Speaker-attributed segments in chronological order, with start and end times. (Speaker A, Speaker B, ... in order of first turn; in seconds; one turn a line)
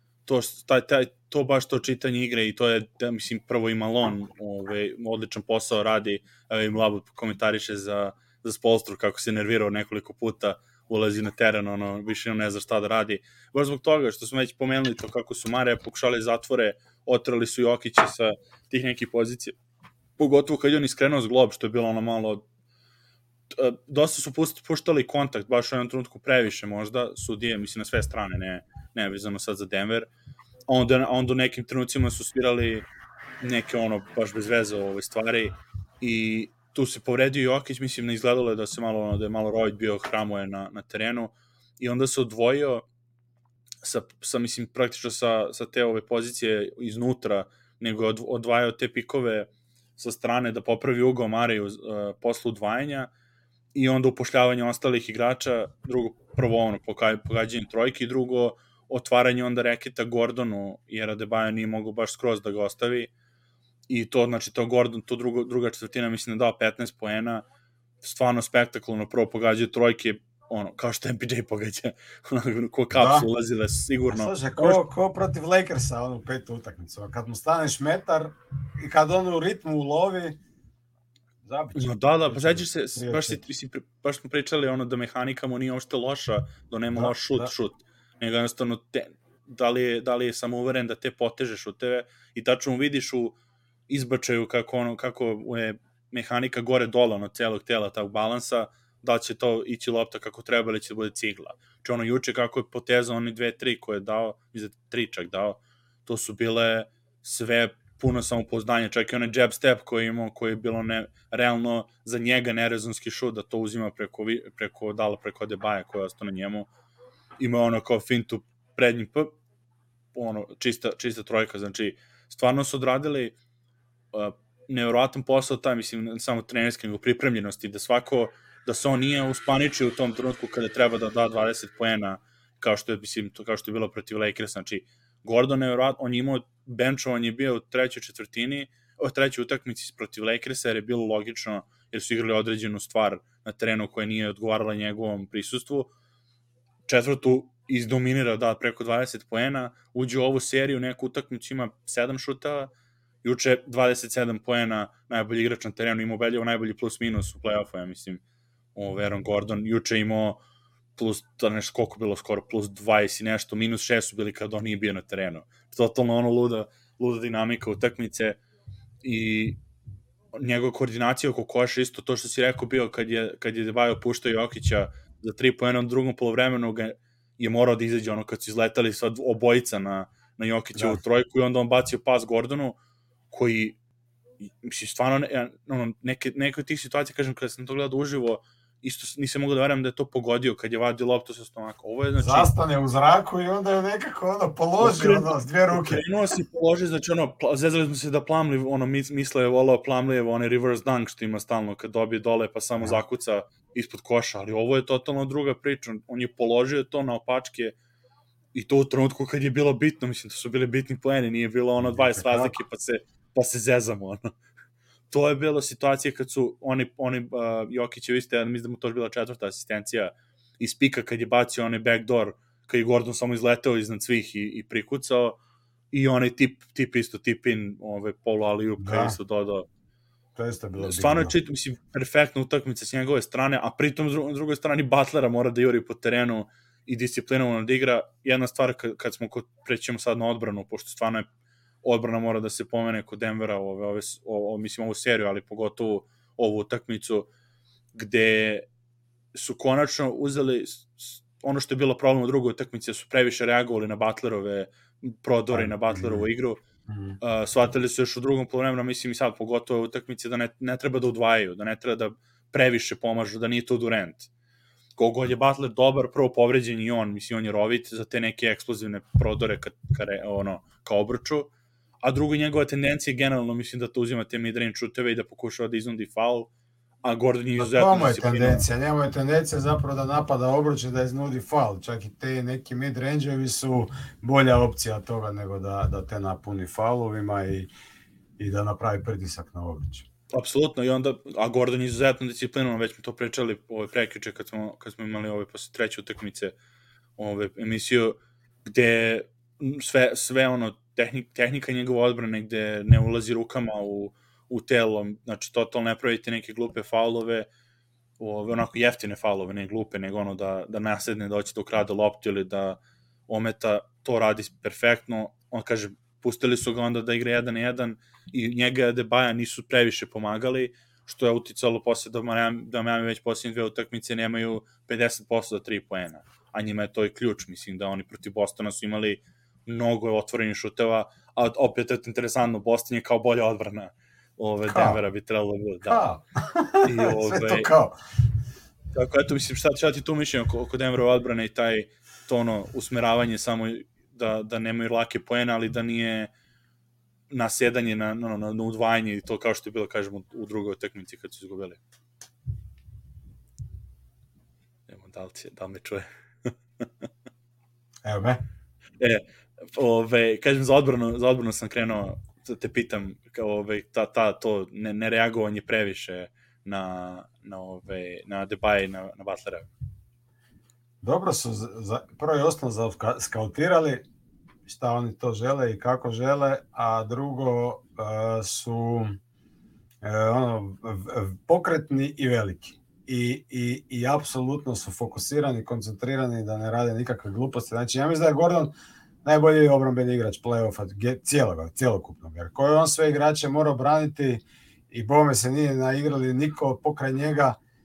Speaker A: 0.2-19.6
Speaker A: 20.2-22.4
Speaker A: 23.5-30.1
Speaker A: 30.7-32.9
Speaker A: 33.4-42.8
Speaker A: 43.8-53.1
Speaker A: 53.7-63.1
Speaker A: 63.9-67.4
Speaker A: 68.0-74.8
Speaker B: 72.9-73.3
Speaker B: 74.1-80.4
Speaker B: 81.4-83.4
Speaker A: 81.7-93.3
Speaker B: 86.9-87.5
Speaker A: 93.9-116.7
Speaker A: 117.4-119.3
Speaker A: 120.1-123.3
Speaker A: 124.1-145.9
Speaker A: 146.9-152.7
Speaker A: 153.2-158.2
Speaker A: 158.7-160.4
Speaker A: 160.9-168.4
Speaker A: 169.0-169.6
Speaker A: 170.3-182.8
Speaker A: 183.3-183.8
Speaker A: 184.5-192.5
Speaker B: 192.2-196.0
Speaker A: 194.8-207.7
Speaker A: 208.5-214.3
Speaker B: 211.8-212.5
Speaker A: 215.1-225.4
Speaker A: 225.9-229.6
Speaker B: 228.8-229.2
Speaker B: 230.3-231.3
Speaker A: 230.8-241.3
Speaker A: 241.8-247.3
Speaker A: 247.9-248.7
Speaker A: 249.3-256.6
Speaker B: 255.5-256.3
Speaker B: 256.9-257.2
Speaker A: 257.2-264.3
Speaker A: 265.0-271.5
Speaker A: 272.0-276.5
Speaker A: 277.0-278.6
Speaker B: 277.6-287.7
Speaker B: 288.4-290.1
Speaker A: 290.3-296.5
Speaker A: 297.2-307.5
Speaker A: 308.2-336.1
Speaker B: 334.7-335.0
Speaker B: 335.9-337.9
Speaker A: 336.8-337.7
Speaker A: 338.9-346.3
Speaker A: 347.3-351.8
Speaker A: 354.9-356.8
Speaker B: 358.0-358.4
Speaker A: 359.7-369.7
Speaker B: 371.0-374.0
Speaker B: 374.7-379.1
Speaker B: 380.0-388.7
Speaker B: 389.2-397.6